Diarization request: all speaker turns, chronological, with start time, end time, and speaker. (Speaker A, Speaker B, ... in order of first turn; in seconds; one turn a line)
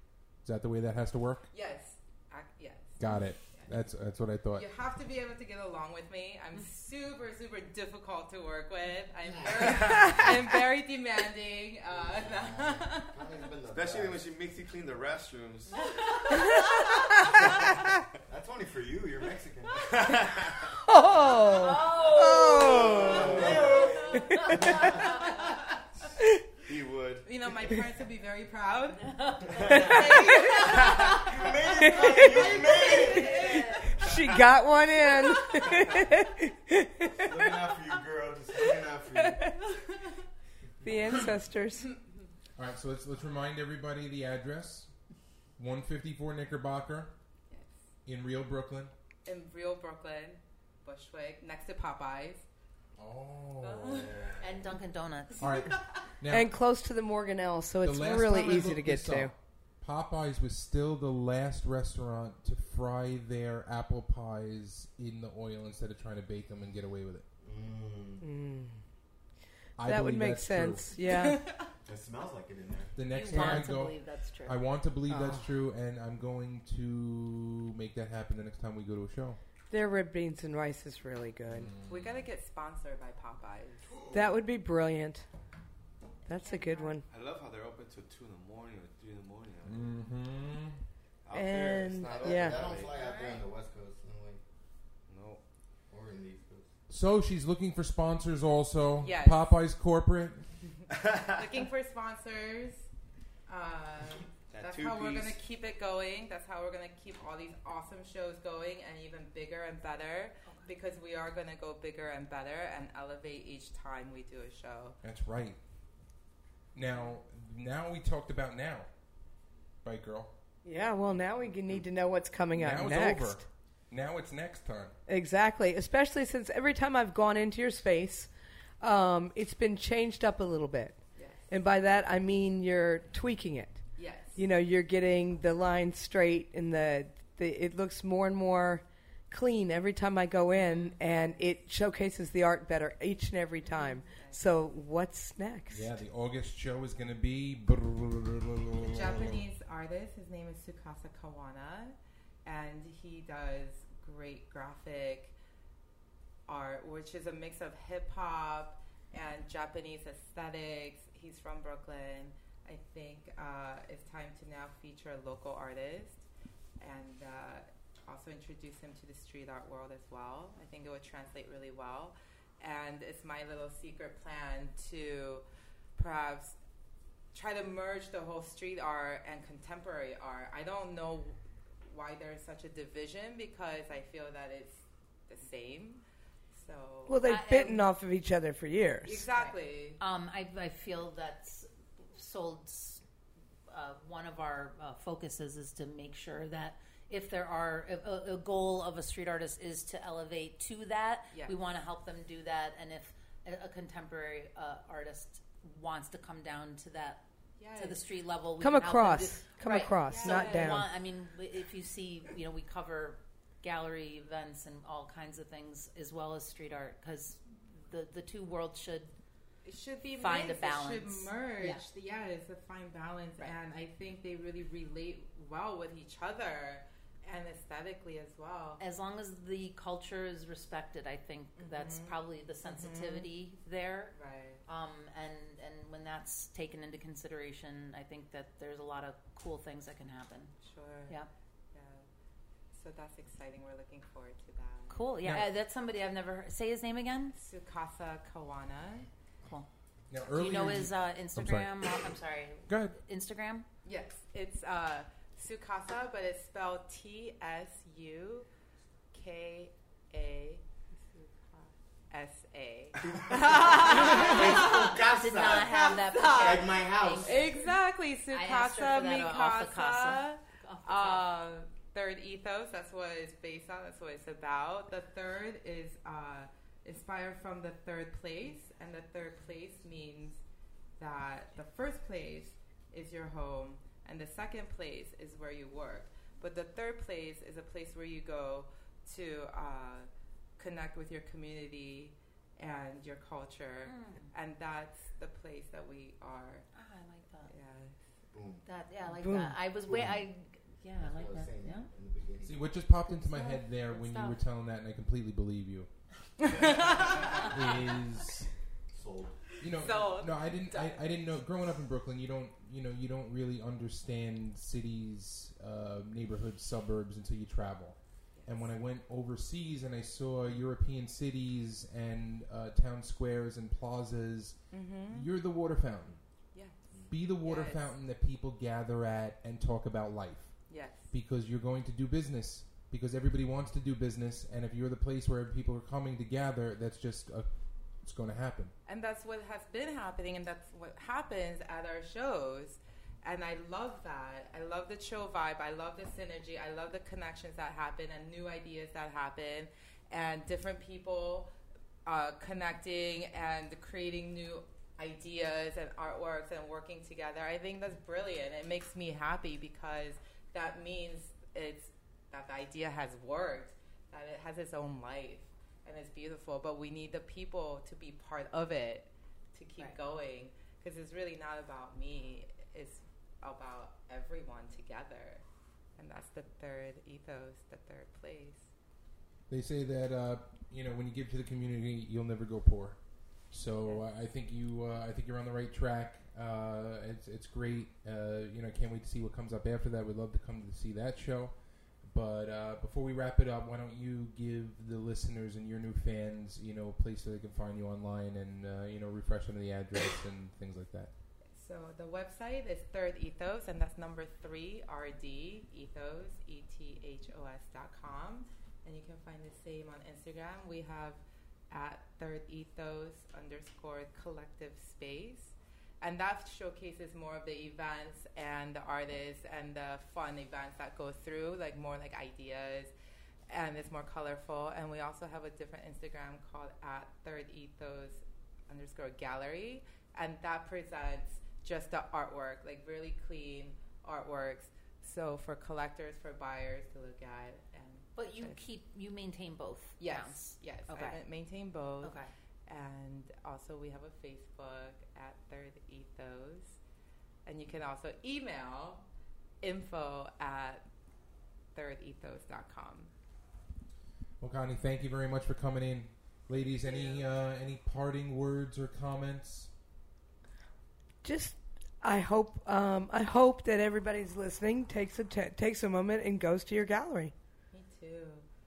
Speaker A: 0.3-1.5
Speaker B: 1.5-3.7
Speaker A: 3.0-4.7
Speaker B: 4.5-13.2
Speaker C: 9.3-10.3
Speaker D: 9.7-10.0
Speaker C: 11.9-14.2
Speaker D: 13.7-15.8
Speaker B: 16.3-16.6
Speaker C: 18.3-20.3
Speaker D: 19.9-20.7
Speaker E: 20.9-23.2
Speaker F: 21.4-23.0
Speaker D: 22.9-24.2
Speaker C: 22.9-25.1
Speaker F: 23.6-25.0
Speaker E: 24.1-24.8
Speaker D: 26.6-27.2
Speaker B: 27.2-31.2
Speaker D: 29.7-30.1
Speaker E: 29.7-30.5
Speaker C: 31.0-33.6
Speaker E: 31.8-32.5
Speaker B: 31.9-34.0
Speaker F: 32.6-33.8
Speaker E: 33.9-37.6
Speaker B: 35.4-35.7
Speaker C: 37.2-39.4
Speaker E: 39.2-39.6
Speaker B: 39.9-40.2
Speaker E: 40.8-42.0
Speaker A: 42.5-47.1
Speaker B: 47.5-47.9
Speaker A: 48.0-48.9
Speaker B: 49.2-52.5
Speaker A: 53.0-54.3
Speaker B: 53.6-54.3
Speaker F: 54.4-55.6
Speaker A: 55.4-56.5
Speaker E: 56.3-59.3
Speaker A: 57.8-67.2
Speaker C: 67.4-68.2
Speaker E: 68.2-68.8
Speaker A: 69.8-70.8
Speaker E: 69.8-71.5
Speaker B: 71.0-71.7
Speaker C: 71.8-72.9
Speaker A: 72.9-79.4
Speaker F: 73.1-74.6
Speaker E: 73.3-73.8
Speaker E: 75.1-75.5
Speaker E: 79.7-81.7
Speaker A: 81.5-82.2
Speaker B: 81.9-83.9
Speaker D: 83.9-84.2
Speaker E: 84.1-85.2
Speaker E: 86.2-87.0
Speaker B: 86.2-87.0
Speaker D: 87.1-89.9
Speaker A: 89.6-90.8
Speaker D: 91.2-93.0
Speaker E: 91.3-92.6
Speaker C: 92.0-94.4
Speaker B: 93.0-93.4
Speaker D: 95.1-95.5
Speaker C: 95.8-96.7
Speaker A: 96.9-100.7
Speaker B: 99.0-99.6
Speaker B: 101.3-102.9
Speaker B: 103.5-115.0
Speaker D: 104.5-105.4
Speaker A: 115.0-116.1
Speaker A: 116.7-120.3
Speaker B: 116.9-117.2
Speaker E: 120.6-123.4
Speaker A: 122.5-124.9
Speaker E: 125.1-145.9
Speaker B: 131.1-131.6
Speaker B: 133.9-134.4
Speaker B: 140.5-141.0
Speaker B: 143.6-144.5
Speaker A: 145.7-149.4
Speaker B: 148.8-155.3
Speaker B: 156.5-166.2
Speaker B: 166.8-175.4
Speaker B: 175.9-176.6
Speaker B: 177.3-187.3
Speaker E: 187.1-189.2
Speaker F: 187.2-187.8
Speaker B: 189.0-190.0
Speaker F: 189.3-193.0
Speaker F: 193.7-219.1
Speaker B: 207.6-208.0
Speaker E: 208.6-210.8
Speaker B: 210.0-210.8
Speaker B: 219.6-228.8
Speaker F: 220.2-221.8
Speaker F: 228.8-240.6
Speaker B: 231.6-233.3
Speaker B: 234.1-234.6
Speaker B: 240.6-241.2
Speaker B: 241.7-242.1
Speaker B: 242.7-245.0
Speaker F: 244.9-247.3
Speaker B: 247.3-249.1
Speaker A: 250.1-252.1
Speaker F: 250.3-253.7
Speaker A: 252.7-252.9
Speaker B: 253.8-258.5
Speaker B: 259.1-280.4
Speaker C: 263.1-267.5
Speaker F: 263.8-267.7
Speaker F: 268.3-271.2
Speaker B: 281.0-296.7
Speaker F: 293.9-294.3
Speaker F: 296.7-297.5
Speaker B: 297.4-298.0
Speaker C: 298.3-298.7
Speaker F: 298.6-301.9
Speaker E: 299.2-299.6
Speaker C: 299.9-300.2
Speaker C: 301.0-302.7
Speaker A: 302.4-305.9
Speaker F: 303.1-304.4
Speaker B: 306.5-307.5
Speaker A: 307.4-308.5
Speaker C: 308.9-309.4
Speaker A: 309.6-326.6
Speaker B: 309.7-311.0
Speaker B: 318.3-318.7
Speaker B: 324.7-325.3
Speaker B: 326.5-327.9
Speaker C: 326.9-327.1
Speaker A: 327.1-338.7
Speaker B: 330.7-331.1
Speaker B: 338.9-351.5
Speaker B: 352.1-375.4
Speaker B: 376.0-378.7
Speaker A: 379.5-401.1
Speaker B: 383.8-384.1
Speaker B: 401.5-422.9
Speaker B: 423.5-438.6
Speaker F: 438.1-441.2
Speaker B: 440.0-446.8
Speaker F: 442.0-442.3
Speaker B: 447.4-449.1
Speaker B: 449.6-450.8
Speaker B: 451.7-453.1
Speaker A: 454.4-459.7
Speaker B: 456.8-457.2
Speaker E: 461.2-467.3
Speaker B: 467.7-468.4